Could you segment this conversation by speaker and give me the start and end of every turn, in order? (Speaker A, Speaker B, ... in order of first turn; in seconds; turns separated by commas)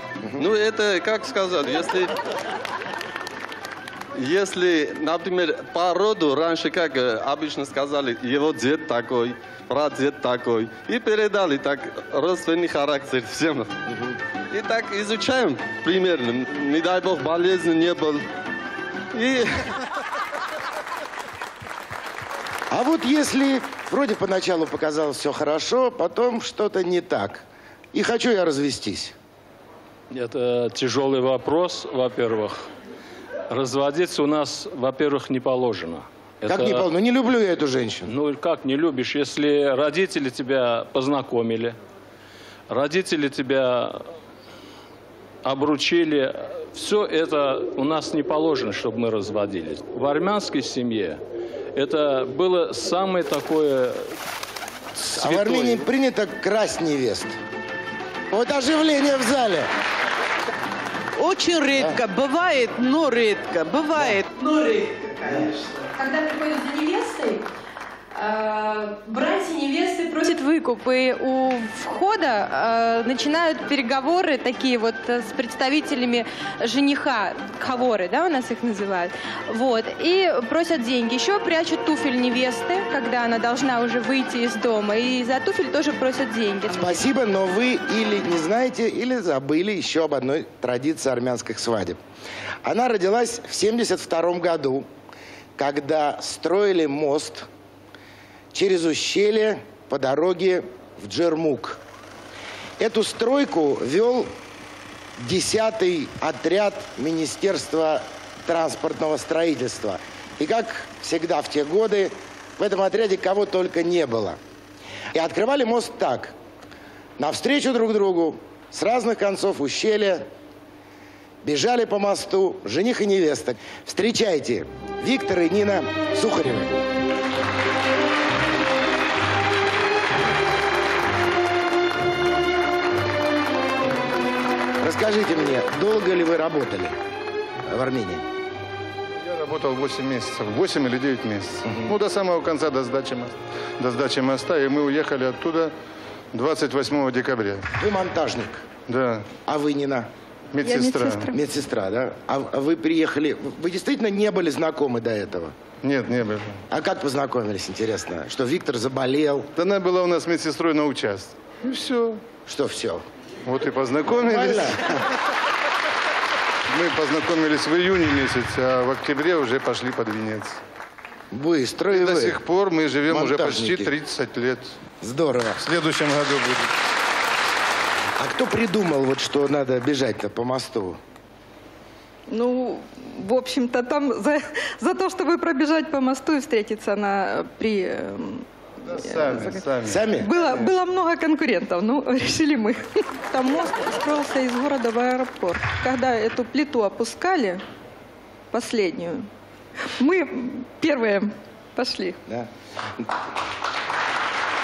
Speaker A: 0.2-0.5, Speaker B: 0.4-2.1, Speaker B: 4.2-13.7, Speaker A: 13.9-14.2, Speaker B: 14.5-18.2, Speaker B: 19.1-19.6, Speaker A: 22.7-29.1, Speaker C: 30.1-32.7, Speaker C: 33.5-36.9, Speaker A: 36.5-38.1, Speaker C: 38.1-41.8, Speaker C: 42.7-44.0, Speaker C: 45.4-51.2, Speaker C: 51.7-54.1, Speaker C: 55.0-55.8, Speaker A: 55.2-57.4, Speaker A: 58.3-59.7, Speaker D: 61.2-65.8, Speaker A: 61.8-62.0, Speaker E: 66.0-67.5, Speaker E: 68.1-86.9, Speaker A: 86.7-92.0, Speaker A: 92.6-94.9, Speaker A: 95.6-97.5, Speaker A: 98.5-101.8, Speaker A: 102.8-104.3, Speaker A: 105.2-114.4, Speaker A: 115.1-116.3, Speaker A: 117.2-120.3, Speaker A: 121.4-126.8, Speaker A: 134.8-136.9, Speaker A: 137.7-138.2, Speaker F: 139.2-145.7, Speaker A: 141.6-141.9, Speaker F: 146.3-147.6, Speaker A: 147.8-148.7, Speaker F: 148.9-149.3, Speaker A: 149.4-150.1, Speaker F: 150.5-151.3, Speaker G: 150.6-151.3, Speaker A: 151.3-155.5, Speaker F: 155.8-156.6, Speaker A: 156.7-159.5, Speaker F: 159.6-162.2, Speaker A: 162.4-163.0, Speaker F: 163.4-164.8, Speaker A: 164.2-164.9, Speaker F: 166.7-170.6, Speaker A: 171.3-172.4, Speaker F: 171.9-174.8, Speaker A: 173.1-173.9, Speaker A: 175.0-175.6, Speaker F: 175.6-176.7, Speaker A: 178.2-181.0, Speaker G: 182.3-189.7, Speaker F: 188.8-190.7, Speaker A: 189.9-190.3, Speaker G: 190.2-197.6, Speaker G: 198.5-199.3, Speaker G: 200.0-202.2